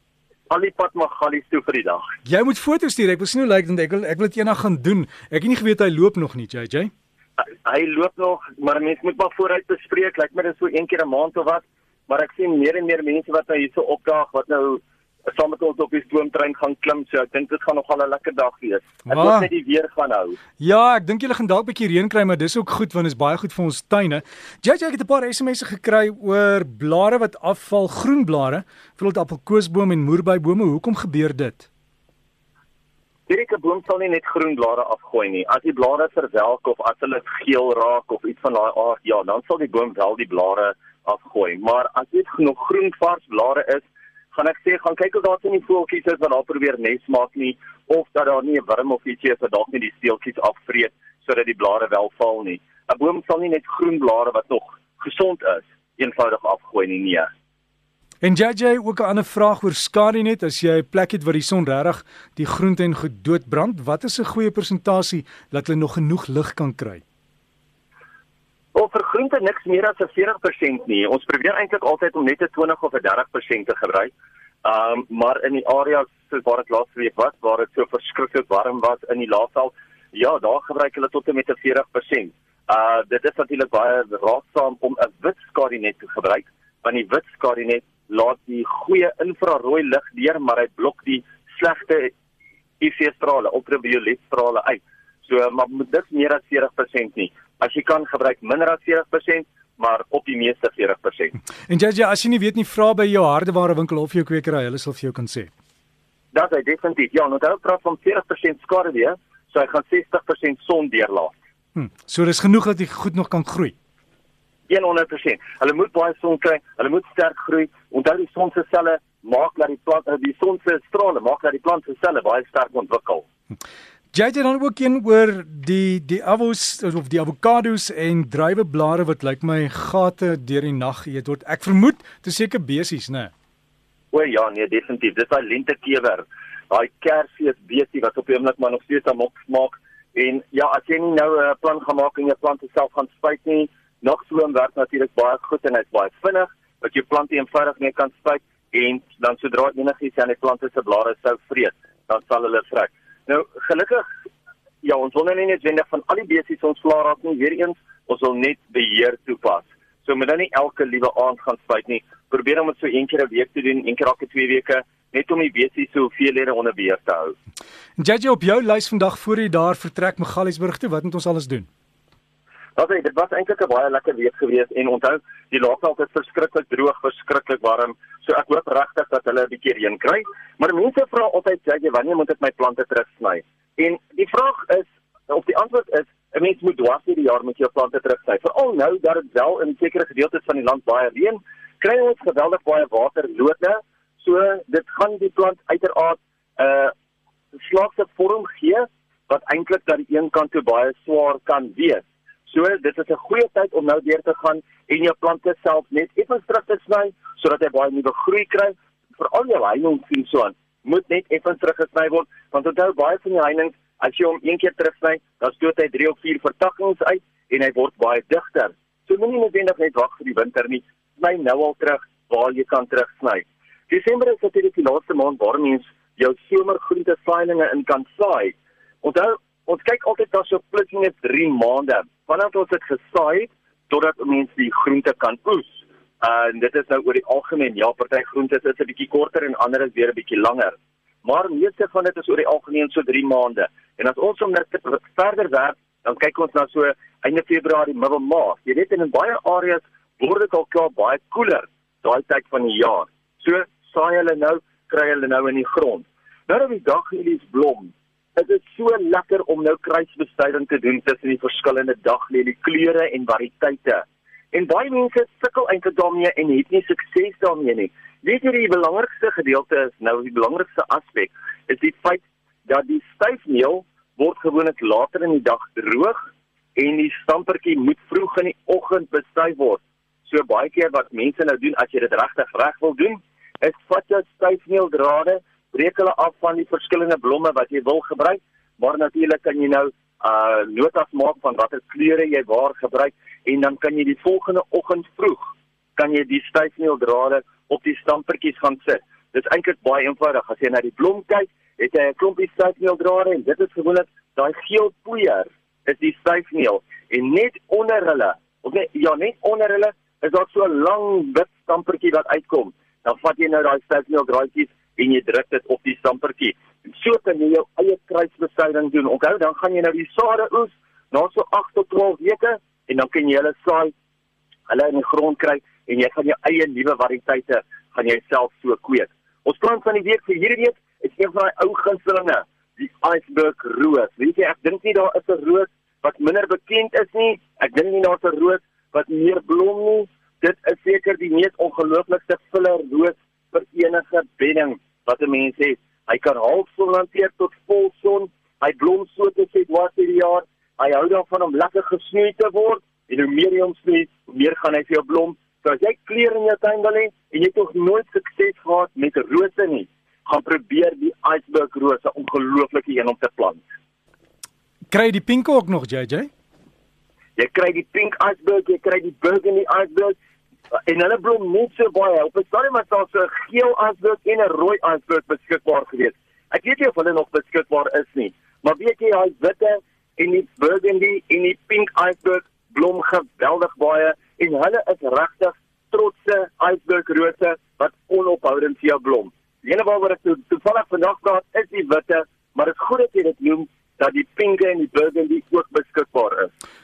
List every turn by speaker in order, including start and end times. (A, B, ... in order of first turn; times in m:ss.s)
0:00.5-0:02.1 A
0:02.2-0:06.9 B
0:07.4-0:20.4 A
0:19.1-0:19.5 B
0:20.6-0:31.7 B
0:33.3-0:57.3 A
0:58.2-1:07.0 B
1:08.8-1:14.1 A
1:14.6-1:32.1 A
1:32.8-1:41.4 A
1:41.7-1:45.5 B
1:46.3-1:51.3 A
1:51.8-1:53.8 B
1:54.7-2:03.3 A
2:04.1-2:13.3 B
2:14.1-2:34.0 A
2:34.8-2:47.4 A
2:48.0-2:51.7 B
2:52.8-3:16.9 A
3:17.6-4:36.2 A
4:36.8-5:23.9 A
5:24.7-6:03.6 A
6:04.9-6:06.3 B
6:07.4-6:10.2 A
6:10.8-6:36.5 A